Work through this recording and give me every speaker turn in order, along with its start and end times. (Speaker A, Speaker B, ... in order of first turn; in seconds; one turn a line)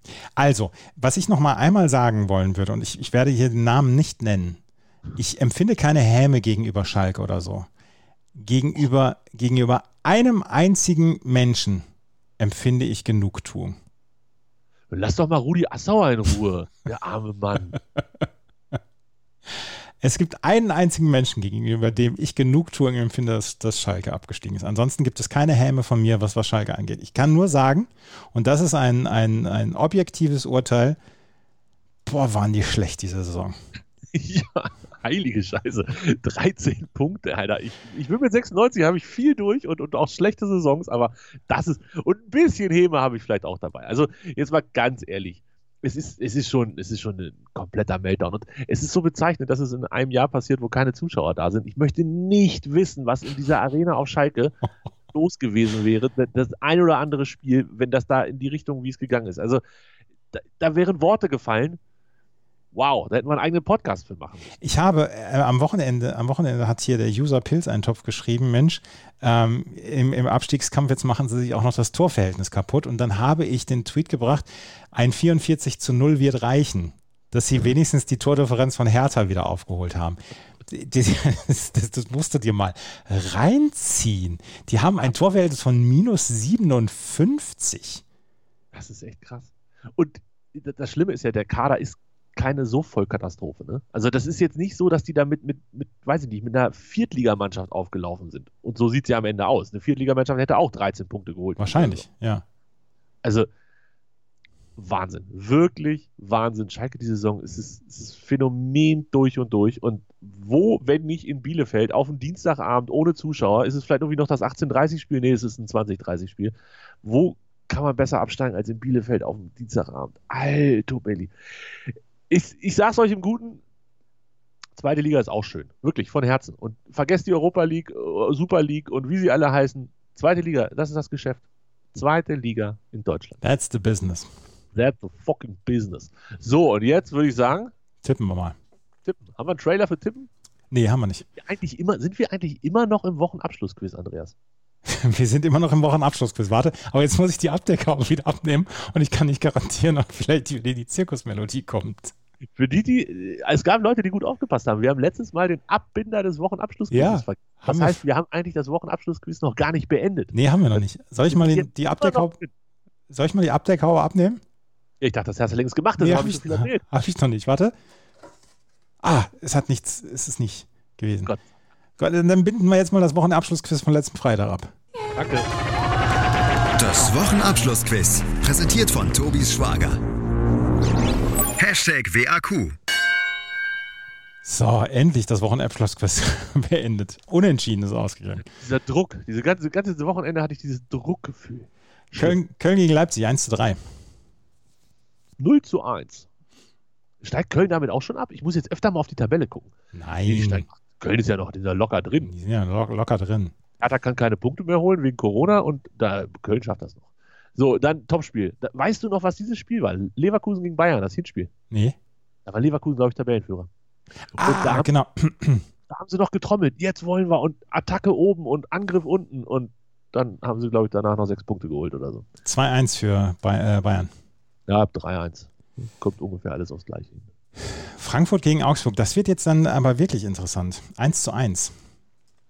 Speaker A: 0.3-4.6
Speaker A: 5.2-7.7
Speaker A: 8.3-11.8
Speaker A: 12.4-13.8
Speaker B: 14.9-17.8
Speaker A: 20.0-31.0
Speaker A: 32.0-33.6
Speaker B: 34.1-54.6
Speaker B: 55.1-59.6
Speaker B: 60.3-61.8
Speaker B: 62.7-64.5
Speaker A: 64.6-88.0
Speaker B: 88.7-102.0
Speaker A: 101.6-102.4
Speaker B: 103.2-103.5
Speaker B: 104.8-123.6
Speaker B: 124.8-133.4
Speaker A: 133.4-134.3
Speaker B: 134.7-137.7
Speaker A: 138.0-138.6
Speaker B: 139.0-140.3
Speaker A: 140.7-141.2
Speaker B: 141.3-144.3
Speaker A: 144.8-152.1
Speaker B: 152.6-162.5
Speaker A: 156.9-158.0
Speaker A: 160.3-162.3
Speaker A: 163.1-164.4
Speaker B: 165.0-166.8
Speaker A: 166.0-167.7
Speaker A: 169.0-171.3
Speaker A: 172.0-174.7
Speaker B: 175.2-175.5
Speaker C: 176.8-180.0
Speaker C: 181.6-182.8
Speaker A: 184.4-188.4
Speaker B: 188.4-192.4
Speaker A: 192.2-193.8
Speaker B: 195.4-196.3
Speaker B: 197.2-199.7
Speaker A: 199.9-200.7
Speaker B: 200.2-202.3
Speaker A: 202.2-203.5
Speaker B: 203.8-207.0
Speaker B: 207.6-211.5
Speaker A: 211.7-211.9
Speaker B: 212.4-213.7
Speaker B: 214.4-214.9
Speaker A: 214.4-215.6
Speaker B: 215.9-222.3
Speaker A: 222.4-224.1
Speaker B: 224.7-227.3
Speaker A: 227.9-231.7